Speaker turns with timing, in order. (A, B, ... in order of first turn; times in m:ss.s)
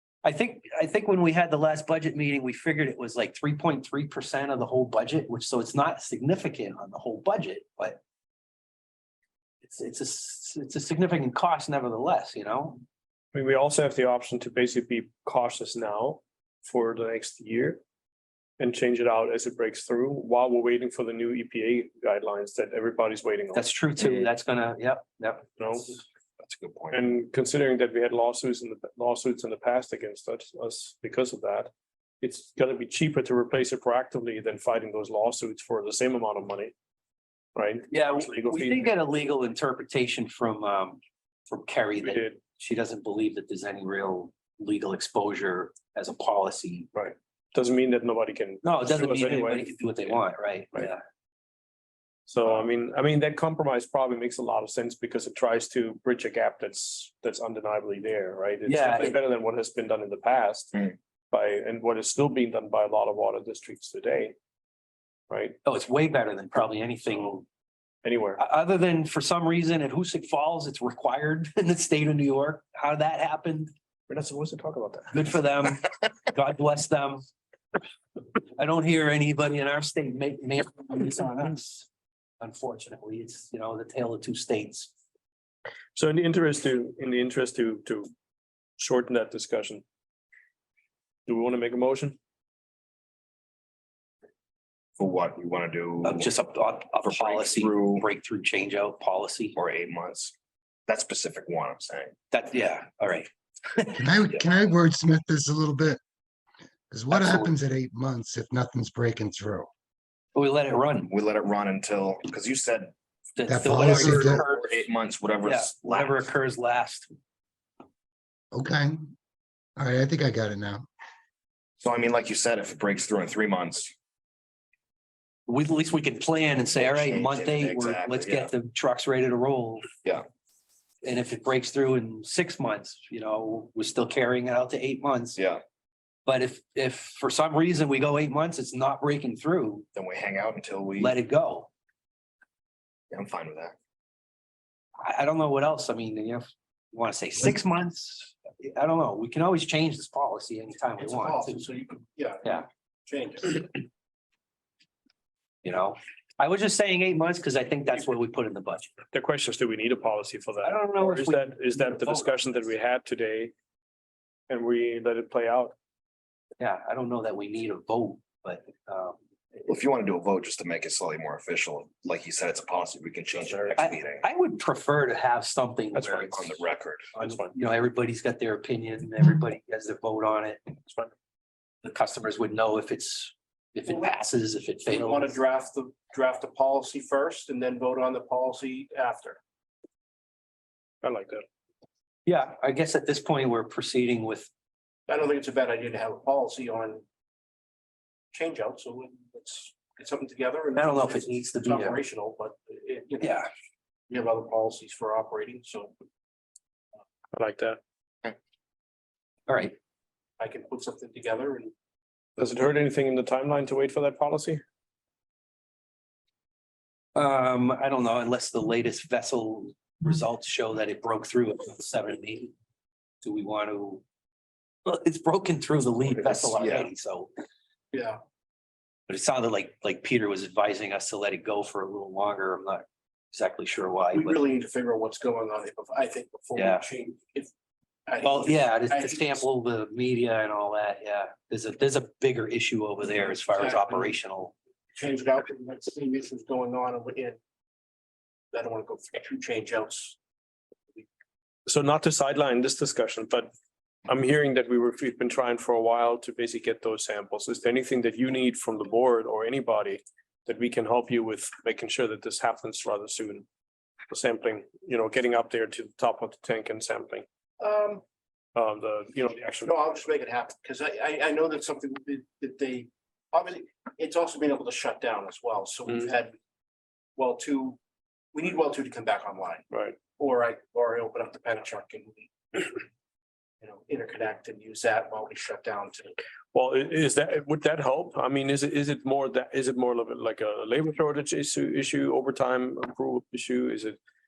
0:00.2-0:08.0 A
0:09.6-0:12.8 A
0:13.3-0:17.8 B
0:18.6-0:24.3 B
0:23.5-0:25.9 A
0:25.6-0:25.9 B
0:26.4-0:27.0 C
0:26.9-0:31.7 B
0:32.2-0:36.7 B
0:37.6-0:38.9 B
0:37.9-0:46.9 A
0:42.0-0:42.4 B
0:46.9-0:50.1 B
0:48.6-0:51.0 A
0:52.3-1:04.4 B
0:58.7-0:59.2 A
1:05.3-1:05.6 B
1:05.6-1:07.5 A
1:08.0-1:08.4 B
1:08.4-1:13.7 A
1:14.1-1:15.2 B
1:15.1-1:17.2 A
1:18.6-1:21.9 A
1:22.4-1:24.9 A
1:26.0-1:28.1 B
1:28.8-1:29.8 B
1:31.3-1:32.2 B
1:35.0-1:36.3 C
1:36.0-1:39.6 A
1:36.9-1:38.1 C
1:39.6-1:40.3 C
1:40.9-1:42.1 C
1:42.3-1:44.0 A
1:44.0-1:46.0 D
1:46.9-1:49.7 D
1:47.1-1:47.5 A
1:50.4-1:51.1 A
1:51.1-1:52.9 C
1:53.4-1:54.9 A
1:53.5-1:54.4 D
1:53.9-1:56.3 C
1:55.4-1:57.1 A
1:58.5-1:59.1 D
1:59.8-2:00.8 D
2:01.8-2:03.9 C
2:05.5-2:09.9 A
2:06.7-2:08.5 C
2:11.0-2:15.4 A
2:15.4-2:15.6 C
2:16.3-2:19.9 A
2:19.9-2:21.2 C
2:21.0-2:21.7 A
2:23.1-2:23.8 C
2:25.0-2:31.6 A
2:31.0-2:33.8 E
2:35.6-2:38.9 A
2:39.1-2:43.5 B
2:40.6-2:42.6 A
2:44.5-2:45.7 B
2:46.6-2:49.2 A
2:49.6-2:54.3 C
2:53.8-3:00.6 A
2:56.0-2:57.1 C
2:57.2-2:57.5 B
3:01.8-3:05.4 A
3:04.9-3:09.4 E
3:11.0-3:11.5 B
3:12.3-3:14.5 A
3:15.1-3:17.0 E
3:18.3-3:23.4 E
3:20.8-3:22.0 A
3:23.2-3:23.5 A
3:24.1-3:25.9 E
3:27.3-3:27.8 B
3:29.5-3:29.8 A
3:30.4-3:31.7 E
3:32.4-3:34.6 B
3:37.2-3:42.5 A
3:43.2-3:44.0 A
3:44.8-3:47.3 A
3:46.1-3:46.9 C
3:47.9-3:48.2 E
3:49.1-3:54.4 A
3:54.1-3:57.5 E
3:56.6-3:56.9 A
3:58.1-3:59.4 E
3:58.2-4:04.5 A
4:03.5-4:04.1 E
4:04.9-4:07.4 E
4:08.5-4:10.2 E
4:11.7-4:13.5 B
4:14.1-4:23.5 B
4:24.1-4:27.2 B
4:27.6-4:28.0 E
4:28.6-4:29.9 B
4:29.6-4:36.3 E
4:37.2-4:37.8 E
4:38.3-4:39.6 E
4:39.7-4:40.0 B
4:40.2-4:42.8 E
4:43.6-4:46.2 E
4:46.5-4:54.0 B